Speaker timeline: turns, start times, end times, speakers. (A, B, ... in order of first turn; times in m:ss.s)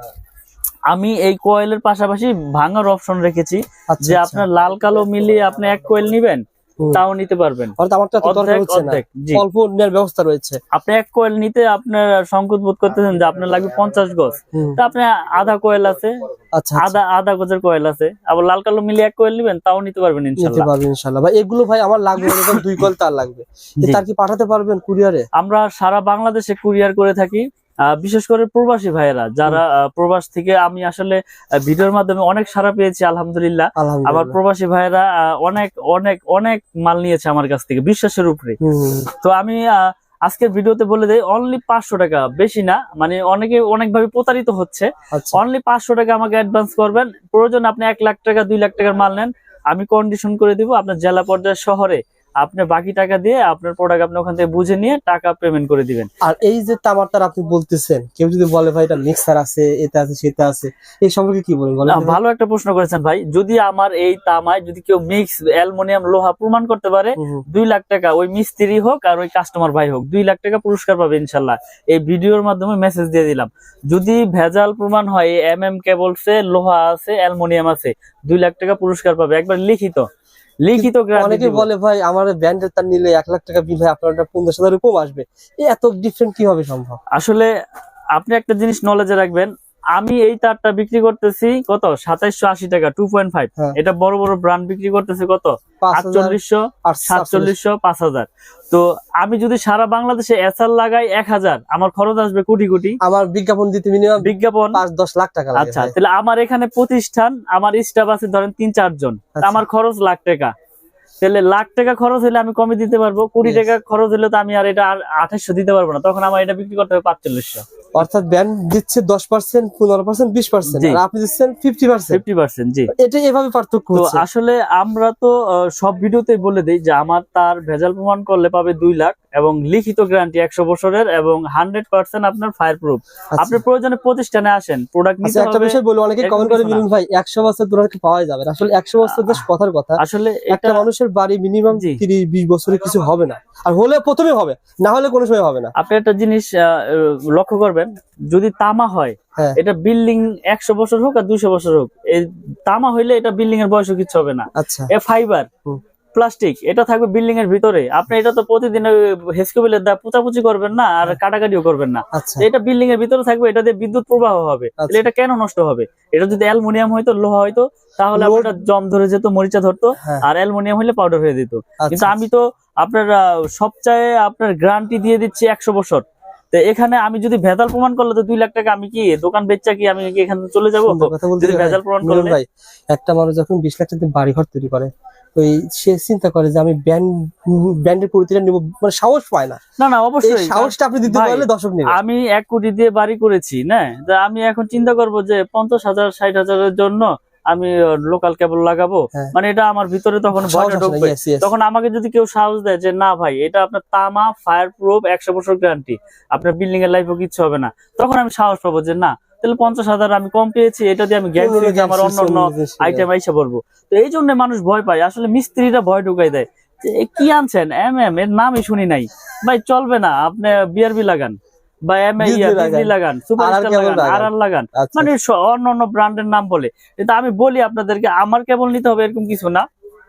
0:00.9-0:09.4 A
0:03.9-0:04.5 B
0:07.8-0:10.6 B
0:10.7-0:16.1 A
0:14.5-0:14.8 B
0:16.6-0:17.0 B
0:16.8-0:20.7 A
0:20.4-0:25.3 B
0:22.3-0:22.6 A
0:25.4-0:38.6 A
0:33.8-0:34.4 B
0:38.6-0:39.1 B
0:39.2-0:56.1 A
0:45.1-0:45.4 B
0:56.2-1:02.2 B
1:01.9-1:20.1 A
1:07.2-1:07.4 B
1:20.6-1:21.7 A
1:20.8-1:27.0 B
1:27.2-1:27.5 A
1:28.2-1:43.0 A
1:35.8-1:37.6 B
1:43.0-1:46.0 B
1:44.2-1:44.8 A
1:45.6-1:50.5 A
1:49.4-1:49.6 B
1:51.2-1:57.7 A
1:58.0-2:02.2 B
2:00.7-2:01.0 A
2:02.1-2:02.9 A
2:02.9-2:04.2 B
2:04.0-2:16.8 A
2:13.4-2:13.6 B
2:15.2-2:25.7 B
2:19.1-2:19.4 A
2:20.0-2:20.9 A
2:21.7-2:22.0 A
2:25.8-2:35.5 A
2:34.6-2:34.9 B
2:36.2-3:02.4 A
2:42.2-2:42.5 B
2:44.8-2:45.1 B
2:48.1-2:48.6 B
2:50.0-2:50.2 B
2:51.8-2:52.3 B
3:00.9-3:09.6 B
3:09.8-3:49.7 A
3:10.2-3:12.0 B
3:20.4-3:21.5 B
3:31.4-3:33.1 B
3:42.2-3:45.1 B